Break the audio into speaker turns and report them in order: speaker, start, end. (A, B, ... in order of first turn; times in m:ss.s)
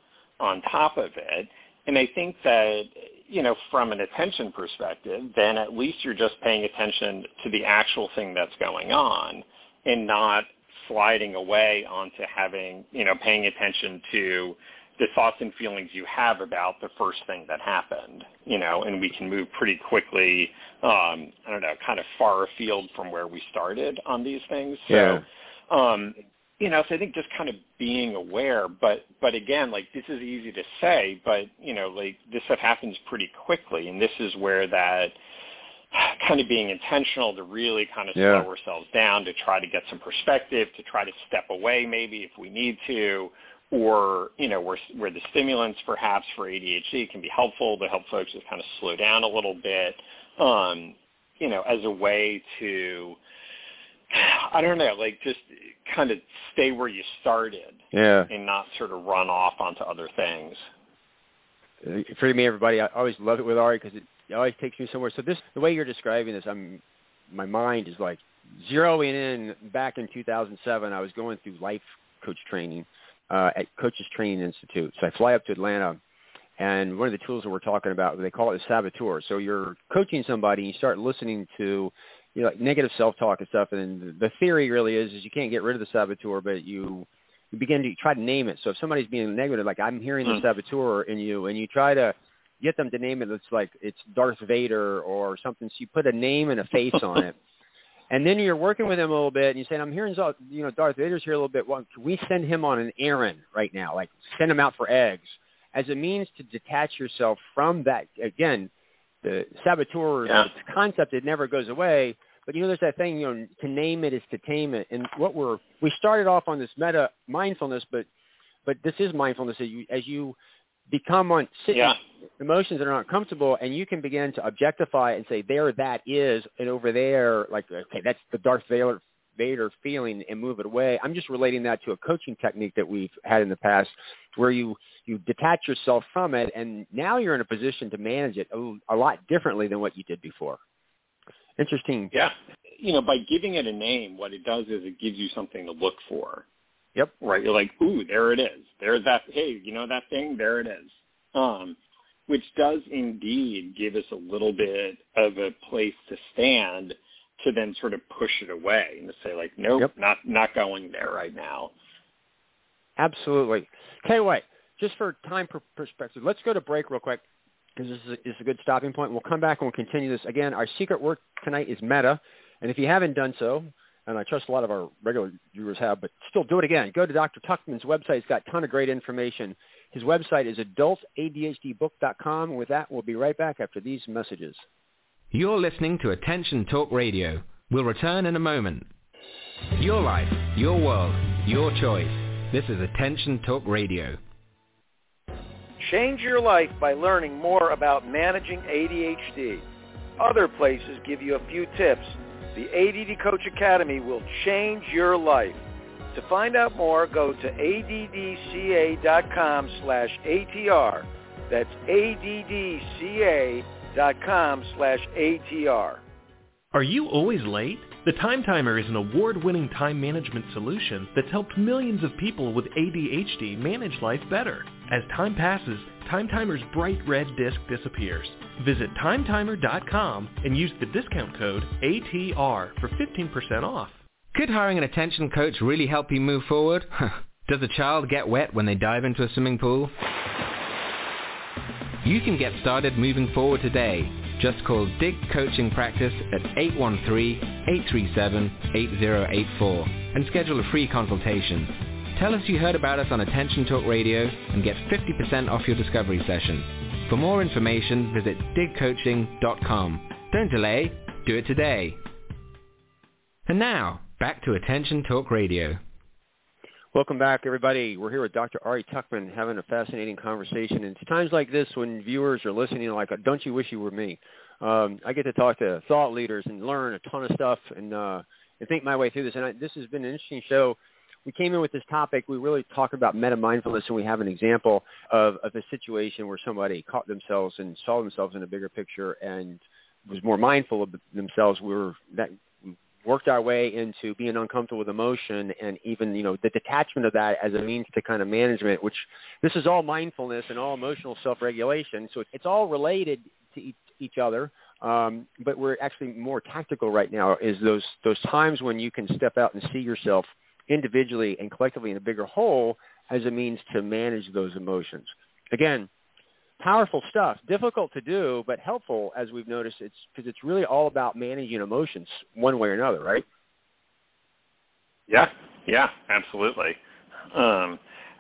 0:00.4-0:35.2 A
0:24.9-0:25.2 B
0:35.9-0:53.2 A
0:38.2-0:38.4 B
0:54.1-1:00.7 A
0:57.9-0:58.3 B
1:01.8-1:16.0 B
1:16.6-1:37.3 B
1:38.1-1:48.7 B
1:49.2-1:58.1 B
1:58.6-2:00.4 B
2:00.9-2:20.6 B
2:01.7-2:02.0 A
2:21.6-2:22.1 B
2:22.1-2:26.4 A
2:27.2-2:31.8 A
2:32.3-2:41.7 A
2:43.0-2:47.2 B
2:47.8-3:04.6 B
3:05.3-3:08.9 C
3:09.8-3:14.2 C
3:15.8-3:19.6 D
3:20.2-3:36.0 D
3:36.7-3:54.0 E
3:54.3-3:59.9 C
4:02.0-4:22.0 C
4:23.5-4:25.8 C
4:26.9-5:15.9 B
5:16.6-5:23.2 B
5:25.1-5:26.8 A
5:27.3-5:27.8 A